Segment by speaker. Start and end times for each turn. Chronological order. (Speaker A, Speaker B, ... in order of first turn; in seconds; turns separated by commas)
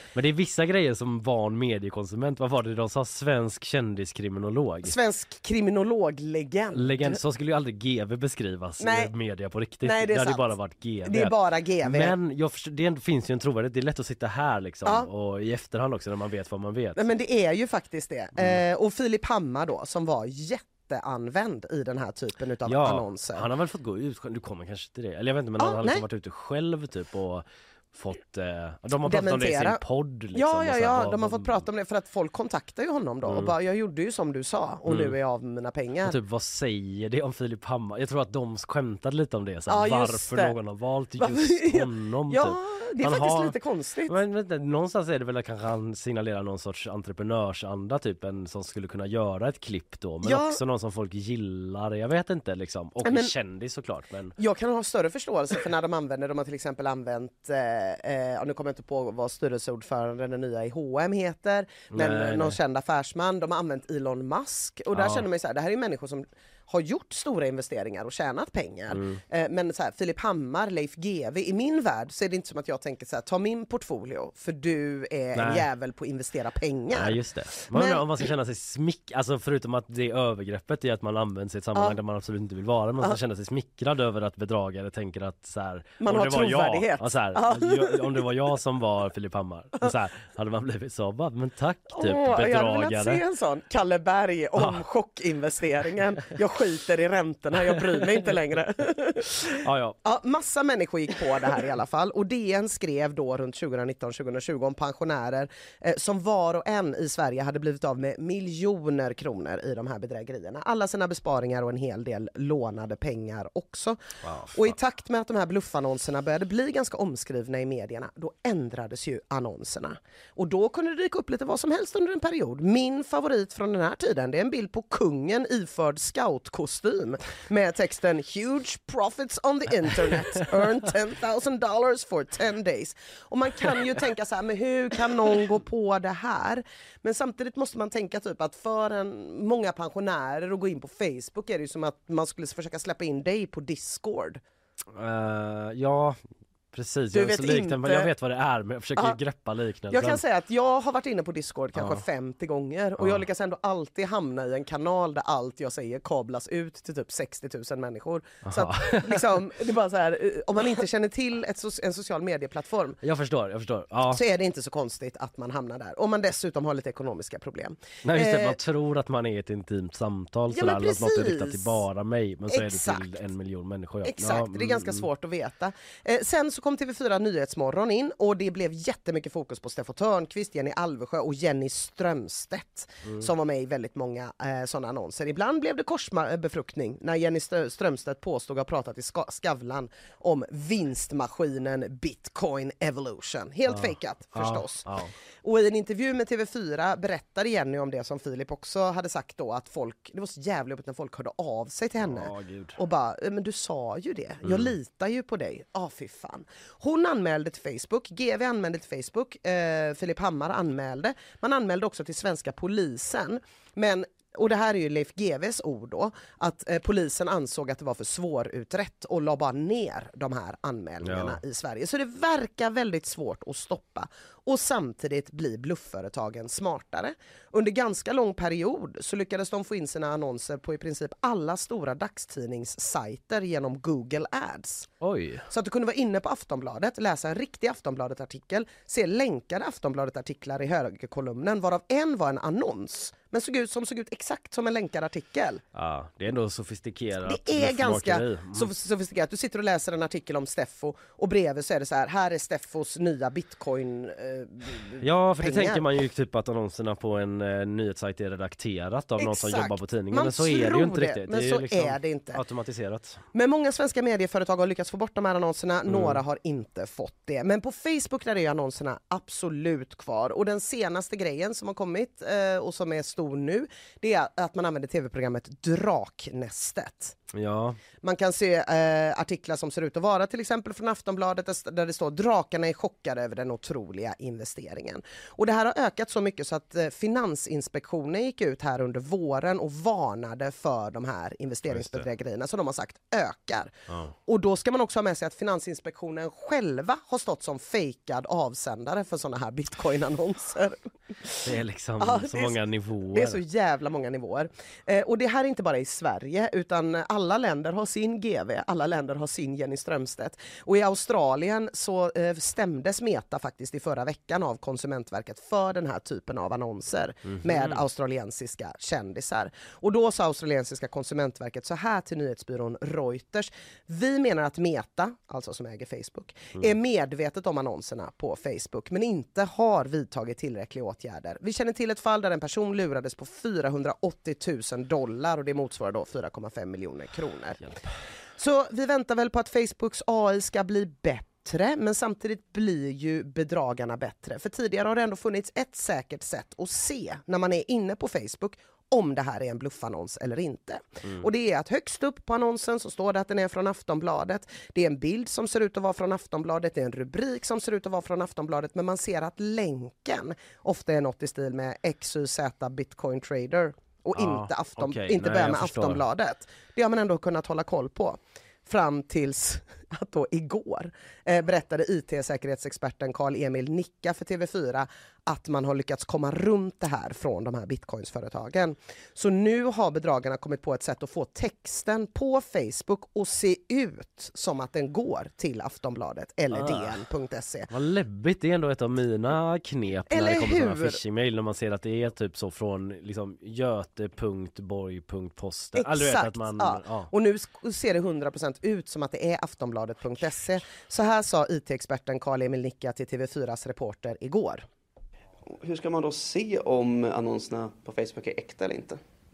Speaker A: 0.1-4.9, Speaker B: 4.8-7.2, Speaker A: 6.7-17.0, Speaker B: 8.8-9.1, Speaker B: 9.8-10.5, Speaker B: 11.0-12.1, Speaker B: 16.9-23.5, Speaker A: 22.6-31.6, Speaker B: 25.6-26.0, Speaker B: 29.0-29.8, Speaker B: 30.3-36.2, Speaker A: 33.3-33.5, Speaker A: 34.9-35.1, Speaker A: 36.1-43.5, Speaker B: 39.7-40.5, Speaker B: 41.2-44.1, Speaker A: 44.1-54.3, Speaker B: 50.2-50.6, Speaker B: 53.0-53.3, Speaker B: 54.4-77.2, Speaker A: 61.9-62.6, Speaker A: 64.9-65.2, Speaker A: 68.9-69.2, Speaker A: 75.3-75.7, Speaker A: 76.9-93.2, Speaker B: 77.7-78.0, Speaker B: 86.0-88.2, Speaker B: 92.0-99.5, Speaker A: 99.5-100.0, Speaker B: 100.0-114.0, Speaker A: 114.2-114.7, Speaker B: 114.5-144.4, Speaker A: 144.9-146.2, Speaker A: 146.7-150.2, Speaker B: 147.1-148.1, Speaker B: 149.9-163.0, Speaker A: 151.8-152.0, Speaker A: 153.0-153.2, Speaker A: 158.4-159.2, Speaker A: 163.0-164.2, Speaker B: 164.1-168.6, Speaker A: 168.0-175.1, Speaker B: 170.5-171.8, Speaker B: 172.5-173.1, Speaker B: 174.0-194.9, Speaker A: 193.7-195.1, Speaker B: 195.4-234.9, Speaker A: 202.0-202.8, Speaker A: 204.4-204.7, Speaker A: 221.0-221.4, Speaker A: 235.0-235.4, Speaker B: 235.5-245.6, Speaker A: 245.7-248.7, Speaker B: 247.3-255.8, Speaker A: 255.0-263.2, Speaker B: 259.2-262.4, Speaker B: 263.3-277.2, Speaker A: 265.9-266.2, Speaker A: 277.3-277.8, Speaker B: 278.0-293.7, Speaker A: 291.6-292.1, Speaker B: 294.3-302.6, Speaker A: 301.4-303.4, Speaker B: 303.1-337.6, Speaker A: 317.3-317.8, Speaker B: 338.4-387.7, Speaker A: 364.1-366.0, Speaker A: 386.5-387.0, Speaker A: 387.7-397.1, Speaker B: 390.1-391.0, Speaker B: 395.8-404.6, Speaker C: 405.6-409.0